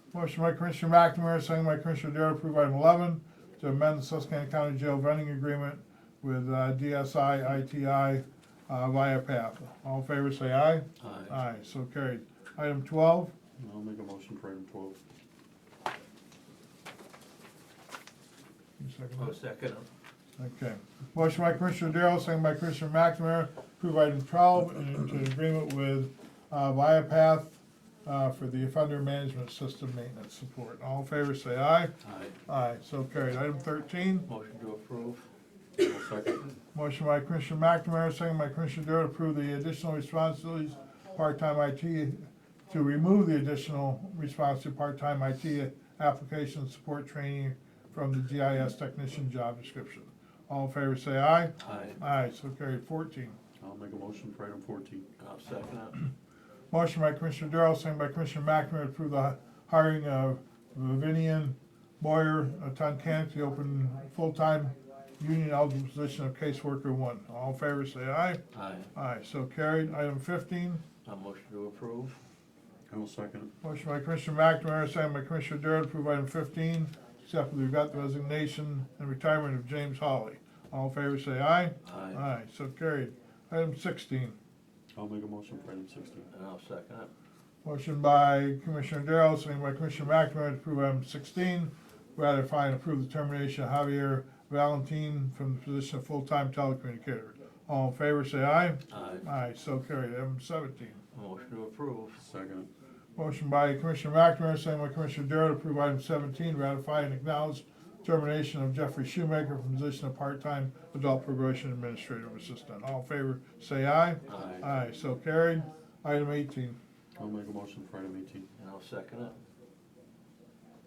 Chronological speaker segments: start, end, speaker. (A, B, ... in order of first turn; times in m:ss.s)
0:00.1-0:13.3 A
0:11.0-0:11.4 B
0:13.6-0:15.0 C
0:18.8-0:19.4 A
0:19.2-0:19.9 B
0:20.4-0:32.0 A
0:32.0-0:32.3 B
0:32.5-0:34.3 A
0:34.3-0:35.3 B
0:35.8-0:36.5 C
0:36.7-0:53.4 A
0:51.6-0:52.0 B
0:53.6-0:55.1 C
0:55.2-0:56.0 B
0:56.7-1:08.4 A
1:08.5-1:08.9 B
1:08.9-1:10.8 A
1:11.0-1:12.2 B
1:12.9-1:13.5 C
1:13.6-1:24.4 A
1:21.8-1:22.2 B
1:25.0-1:26.3 C
1:26.3-1:27.1 B
1:27.6-1:41.0 A
1:38.9-1:39.2 B
1:41.1-1:42.2 B
1:42.2-1:42.7 C
1:43.2-1:56.8 A
1:54.3-1:54.6 B
1:57.2-1:58.5 C
1:58.6-1:59.4 B